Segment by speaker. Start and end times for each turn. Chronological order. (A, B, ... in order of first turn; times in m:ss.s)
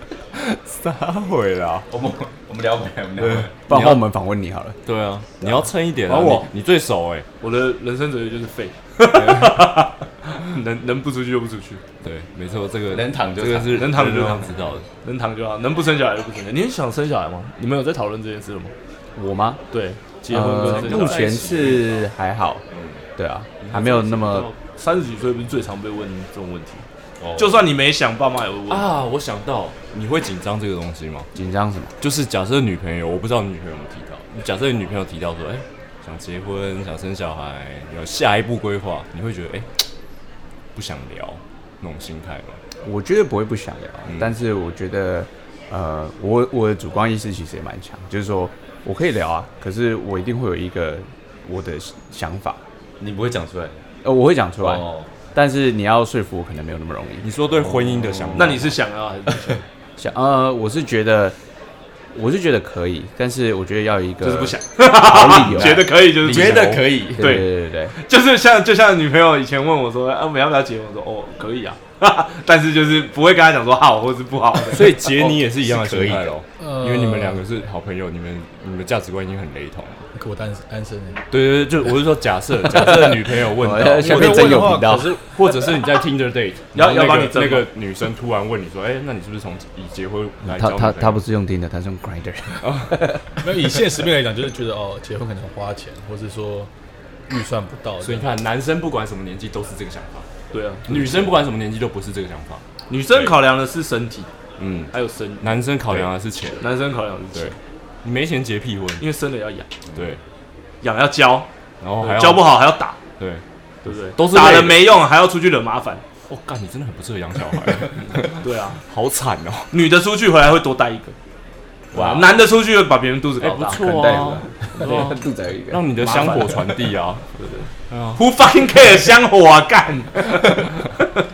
0:00.4-0:01.9 A
0:01.9-0:03.6 B
0:03.2-0:04.0 A
0:03.7-0:04.8 C
0:04.8-0:07.2 A
0:06.1-0:06.5 D
0:07.4-0:11.8 D
0:09.1-0:09.7 A
0:12.0-0:14.9 A
0:12.9-0:13.9 B
0:13.7-0:18.7 D
0:19.2-0:19.6 C
0:19.7-0:21.6 D
0:20.3-0:22.6 C
0:20.5-0:21.9 A
0:22.7-0:23.0 A
0:23.2-0:24.5 C
0:23.6-0:24.6 A
0:24.8-0:26.8 D
0:27.2-0:27.5 B
0:27.4-0:29.0 D
0:28.7-0:31.3 A
0:31.3-0:31.9 C
0:32.0-0:39.9 A
0:40.7-0:42.6 A
0:42.8-0:52.6 C
0:53.0-0:53.8 B
0:54.0-0:57.3 C
0:54.6-0:55.1 B
0:57.2-0:58.7 A
0:58.2-0:58.5 C
0:58.4-0:59.6 D
1:00.0-1:01.4 C
1:02.1-1:05.9 C
1:04.2-1:15.4 D
1:05.4-1:06.9 A
1:06.2-1:07.4 B
1:07.1-1:07.9 C
1:14.7-1:20.0 A
1:15.5-1:16.3 B
1:16.6-1:17.4 E
1:20.1-1:21.2 E
1:21.3-1:31.2 A
1:22.6-1:25.2 C
1:24.0-1:25.2 E
1:26.7-1:27.7 D
1:30.4-1:33.2 C
1:32.6-1:33.1 A
1:33.4-1:36.7 E
1:37.3-1:38.3 E
1:38.0-1:40.3 A
1:40.5-1:41.4 D
1:40.9-1:43.4 A
1:42.9-1:44.3 D
1:44.6-1:46.7 A
1:44.9-1:47.6 D
1:47.3-1:49.0 A
1:49.0-1:49.7 D
1:49.9-1:50.2 A
1:50.8-1:51.5 D
1:51.8-1:52.6 A
1:52.0-1:53.0 D
1:53.2-1:53.4 A
1:53.8-1:56.0 D
1:54.2-1:54.9 A
1:56.3-1:59.8 A
1:57.9-1:58.8 D
1:59.7-2:01.1 D
2:01.9-2:02.3 A
2:01.9-2:04.4 D
2:03.4-2:07.2 A
2:03.9-2:05.8 C
2:06.0-2:11.1 D
2:07.9-2:08.2 A
2:10.3-2:10.7 A